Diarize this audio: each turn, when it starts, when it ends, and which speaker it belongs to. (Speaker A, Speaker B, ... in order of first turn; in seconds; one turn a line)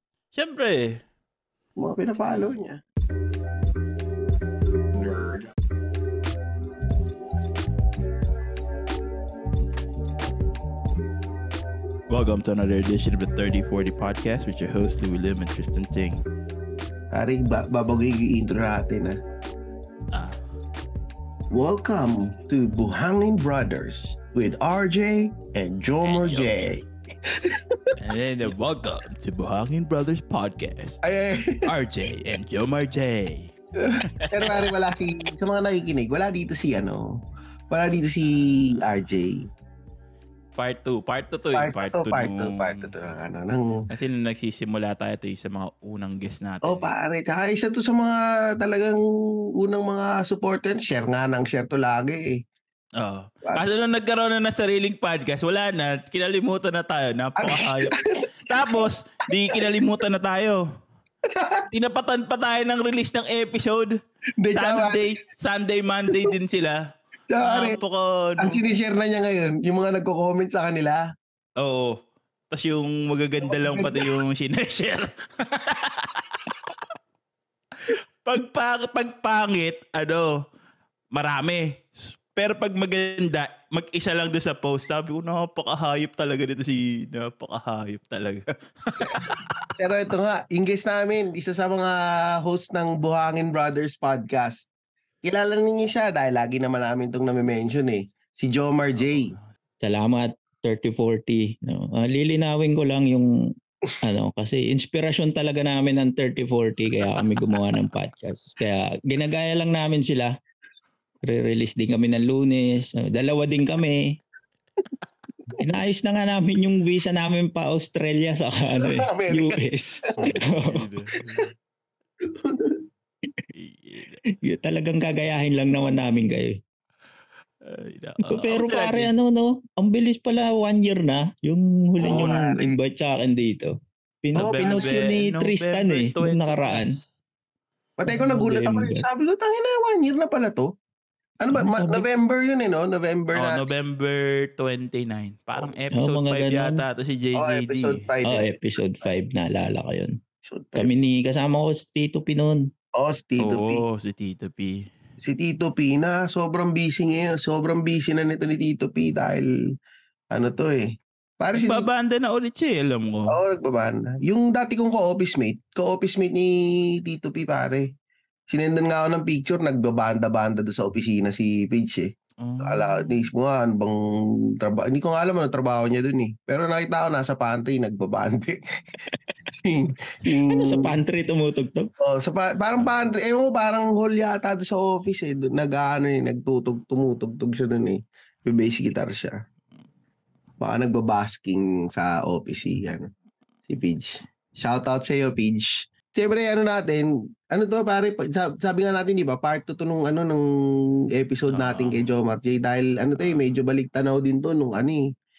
Speaker A: 0.3-1.0
Speaker B: 1.8-2.8
Speaker A: 12.1-16.2
Speaker B: 17.1-19.2
Speaker A: 20.1-20.4
Speaker B: 21.5-26.8
Speaker A: 26.1-26.7
Speaker B: 27.3-27.9
Speaker A: 28.0-31.0
Speaker B: 31.0-31.6
Speaker A: 31.6-33.5
Speaker B: 33.8-39.5
Speaker A: 34.1-34.7
Speaker A: 40.6-43.0
Speaker B: 41.5-43.9
Speaker A: 43.9-46.9
Speaker B: 46.6-49.0
Speaker B: 49.6-52.4
Speaker A: 53.0-60.6
Speaker B: 57.4-58.9
Speaker B: 59.4-59.8
Speaker B: 61.3-61.7
Speaker A: 61.7-64.0
Speaker B: 64.4-65.1
Speaker A: 64.5-66.8
Speaker B: 67.3-67.8
Speaker A: 67.4-68.6
Speaker B: 68.4-71.0
Speaker A: 71.6-72.0
Speaker A: 72.5-76.8
Speaker B: 73.4-74.2
Speaker A: 77.8-80.4
Speaker A: 81.1-89.7
Speaker B: 89.0-94.7
Speaker B: 95.2-99.3
Speaker A: 99.0-99.5
Speaker C: 99.8-103.3
Speaker C: 104.0-110.3
Speaker C: 111.3-114.2
Speaker C: 115.6-120.9
Speaker B: 118.8-120.3
Speaker A: 120.2-121.5
Speaker B: 122.2-122.8
Speaker A: 123.5-124.2
Speaker C: 124.3-126.6
Speaker A: 127.6-129.1
Speaker C: 128.2-137.0
Speaker A: 132.0-132.4
Speaker B: 132.0-132.8
Speaker B: 134.4-135.0
Speaker A: 134.4-137.1
Speaker B: 138.0-140.7
Speaker C: 138.1-139.1
Speaker B: 141.4-143.6
Speaker C: 141.5-142.1
Speaker A: 143.3-148.0
Speaker C: 146.0-146.8
Speaker B: 147.4-148.5
Speaker C: 148.3-150.2
Speaker B: 150.5-150.9
Speaker C: 150.8-152.6
Speaker B: 153.0-153.8
Speaker A: 153.4-154.9
Speaker B: 155.2-159.5
Speaker B: 160.3-161.9
Speaker A: 161.5-163.4
Speaker B: 163.3-167.9
Speaker B: 168.5-172.1
Speaker A: 172.4-173.3
Speaker B: 172.6-174.0
Speaker B: 174.6-178.6
Speaker B: 179.5-180.9
Speaker C: 180.5-181.9
Speaker B: 182.0-189.3
Speaker B: 190.6-193.1
Speaker B: 193.7-200.5
Speaker B: 201.2-205.0
Speaker A: 201.5-202.1
Speaker A: 203.2-203.4